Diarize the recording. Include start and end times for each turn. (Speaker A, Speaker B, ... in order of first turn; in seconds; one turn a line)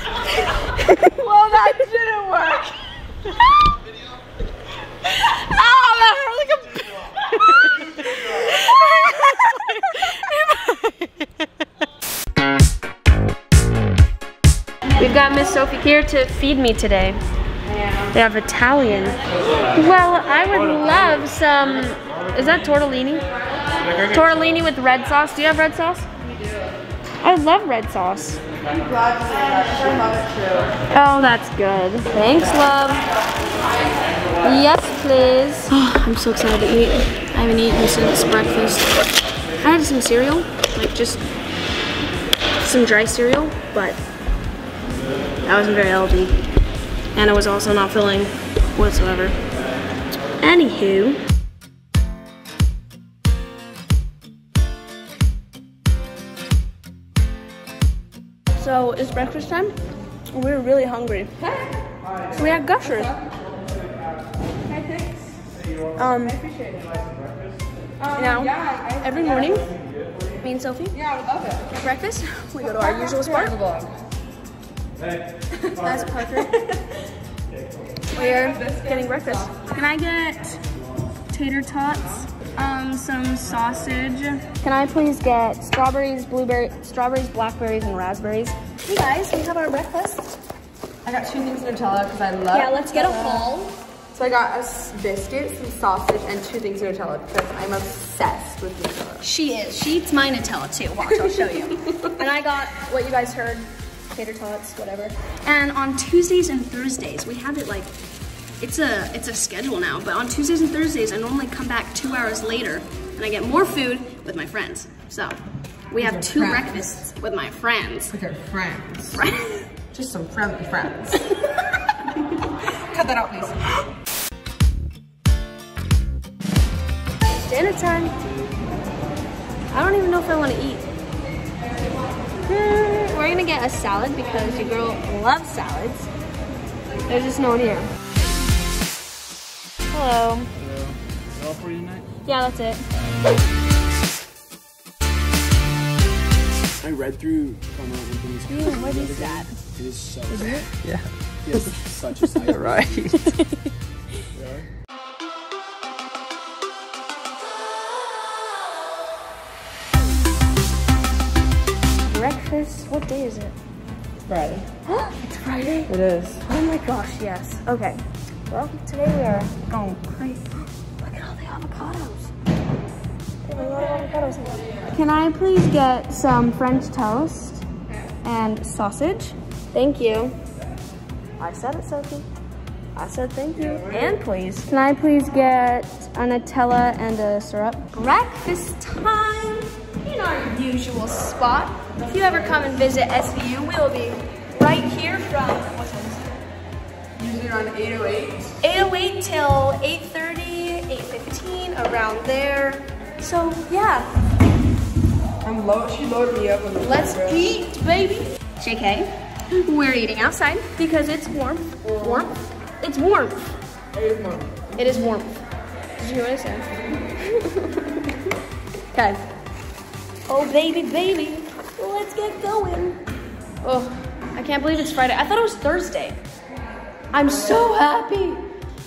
Speaker A: 1.1-2.7
Speaker B: 5.2-10.8
Speaker B: 15.0-17.2
Speaker B: 18.1-19.2
Speaker B: 19.7-23.2
Speaker B: 24.0-26.1
Speaker B: 27.2-28.4
Speaker A: 28.9-30.6
Speaker B: 30.9-33.0
Speaker B: 34.4-39.0
Speaker B: 39.6-41.2
Speaker B: 42.6-44.0
Speaker B: 45.4-46.4
Speaker B: 47.1-49.4
Speaker B: 50.4-51.2
Speaker B: 58.6-59.7
Speaker B: 60.3-61.4
Speaker B: 62.3-63.1
Speaker A: 66.0-66.5
Speaker A: 68.0-69.3
Speaker B: 68.1-69.7
Speaker B: 70.4-71.0
Speaker A: 70.9-71.6
Speaker B: 71.7-73.6
Speaker A: 72.6-73.9
Speaker B: 75.8-76.8
Speaker B: 78.1-80.6
Speaker A: 78.5-79.2
Speaker B: 81.3-90.3
Speaker A: 91.0-93.5
Speaker B: 92.5-93.8
Speaker A: 94.1-99.2
Speaker B: 99.2-107.9
Speaker A: 101.0-101.3
Speaker B: 108.6-115.4
Speaker B: 115.9-118.2
Speaker A: 116.0-117.0
Speaker A: 118.1-119.2
Speaker B: 119.1-119.7
Speaker A: 119.9-121.3
Speaker A: 122.8-123.8
Speaker B: 127.4-128.2
Speaker B: 129.7-130.8
Speaker B: 132.4-136.1
Speaker B: 137.1-137.9
Speaker B: 139.9-140.5
Speaker B: 142.2-142.8
Speaker C: 146.8-150.7
Speaker B: 148.5-149.6
Speaker B: 150.3-150.7
Speaker C: 151.4-152.9
Speaker A: 152.4-153.4
Speaker C: 154.3-154.7
Speaker B: 162.0-163.5
Speaker A: 164.3-164.7
Speaker B: 164.8-165.9
Speaker A: 165.9-166.4
Speaker B: 166.4-172.3
Speaker B: 173.4-177.6
Speaker B: 178.2-180.4
Speaker B: 181.4-182.3
Speaker B: 182.9-196.4
Speaker A: 197.2-198.5
Speaker B: 198.6-204.1
Speaker A: 205.4-207.4
Speaker B: 206.8-213.6
Speaker B: 214.7-215.4
Speaker B: 216.0-218.0
Speaker B: 218.9-219.2
Speaker B: 220.3-223.0
Speaker B: 223.6-226.2
Speaker B: 227.1-228.4